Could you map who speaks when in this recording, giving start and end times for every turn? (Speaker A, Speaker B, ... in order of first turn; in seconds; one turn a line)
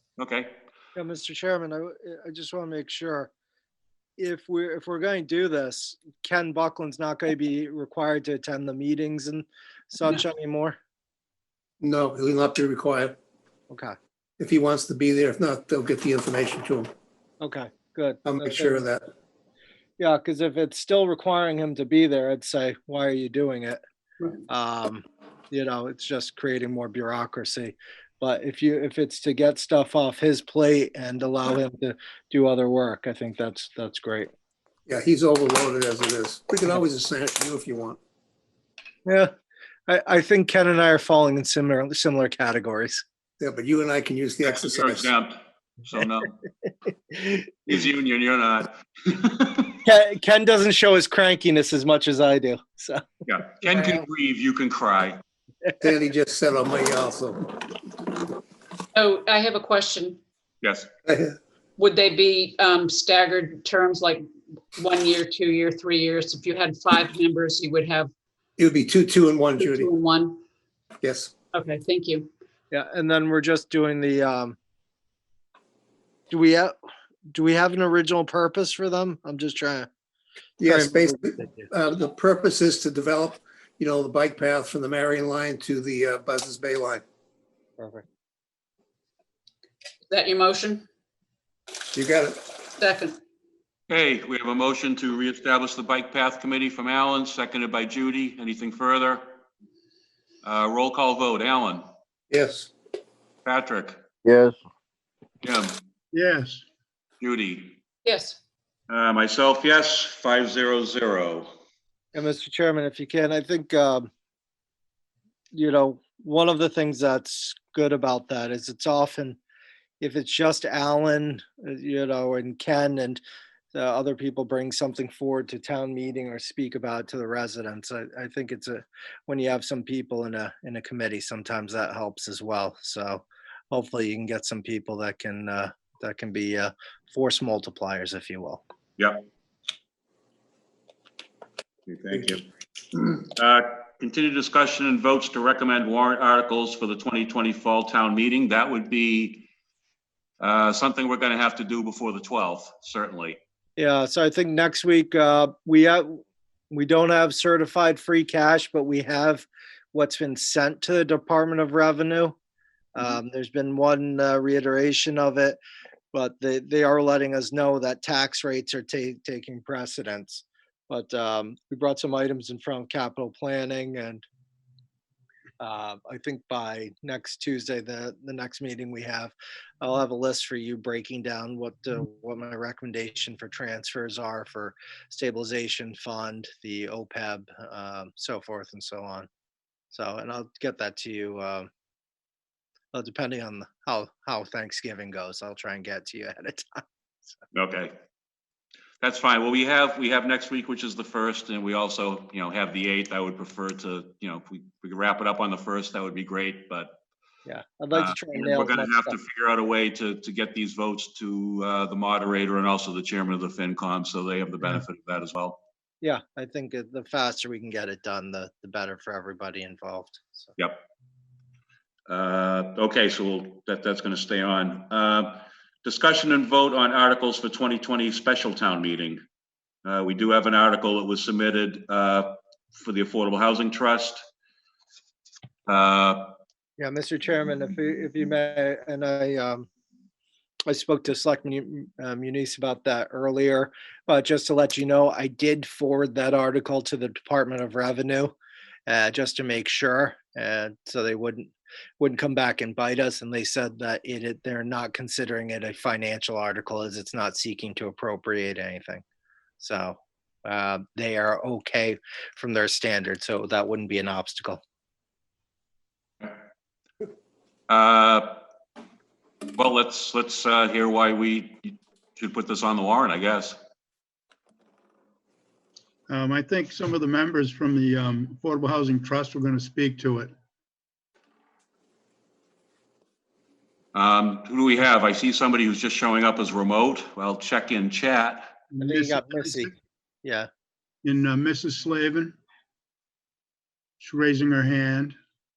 Speaker A: 0.2-0.5
Speaker B: 0.9-3.3
Speaker B: 4.2-10.8
Speaker C: 11.8-13.2
Speaker C: 14.4-16.9
Speaker B: 17.4-18.8
Speaker C: 18.2-19.1
Speaker B: 20.0-23.8
Speaker B: 24.5-34.3
Speaker C: 34.9-38.0
Speaker B: 39.0-39.3
Speaker B: 39.9-43.0
Speaker C: 43.4-45.1
Speaker B: 47.1-47.8
Speaker A: 48.0-49.7
Speaker B: 49.8-53.4
Speaker A: 54.0-55.2
Speaker C: 55.8-57.5
Speaker D: 58.9-60.2
Speaker C: 61.0-61.4
Speaker D: 61.8-64.2
Speaker D: 64.7-68.1
Speaker C: 68.6-69.9
Speaker D: 69.6-70.4
Speaker C: 71.0-71.3
Speaker D: 71.5-72.3
Speaker B: 72.7-74.5
Speaker B: 76.3-76.7
Speaker B: 77.3-79.9
Speaker C: 80.6-87.0
Speaker B: 80.6-81.7
Speaker B: 87.8-88.0
Speaker D: 90.1-90.8
Speaker C: 91.9-92.4
Speaker D: 92.8-93.2
Speaker A: 93.9-99.2
Speaker A: 100.4-101.8
Speaker C: 102.3-102.7
Speaker A: 103.5-104.0
Speaker A: 105.4-105.7
Speaker E: 106.1-106.6
Speaker A: 107.2-107.8
Speaker D: 108.0-108.4
Speaker A: 108.9-111.5
Speaker B: 112.1-114.1
Speaker B: 115.5-119.4
Speaker B: 120.0-123.2
Speaker B: 123.7-138.6
Speaker A: 141.9-142.4
Speaker A: 143.3-149.4
Speaker A: 150.4-153.4
Speaker B: 153.8-162.3
Speaker B: 162.9-165.6
Speaker B: 166.1-174.2
Speaker B: 175.6-189.3
Speaker B: 189.9-191.7
Speaker B: 192.9-196.8
Speaker A: 197.5-197.9
Speaker A: 199.0-206.9
Speaker B: 207.4-209.2
Speaker A: 208.0-215.6
Speaker B: 216.0-220.6
Speaker A: 222.1-229.2
Speaker A: 229.8-234.2
Speaker A: 235.7-236.3
Speaker B: 236.8-239.7
Speaker B: 240.7-248.3
Speaker B: 248.9-259.0
Speaker B: 259.6-264.6
Speaker A: 267.7-268.4
Speaker A: 269.6-273.6
Speaker E: 276.1-280.3
Speaker A: 283.9-288.5
Speaker E: 288.7-289.7
Speaker B: 288.8-289.7
Speaker E: 291.0-292.3
Speaker E: 294.0-295.1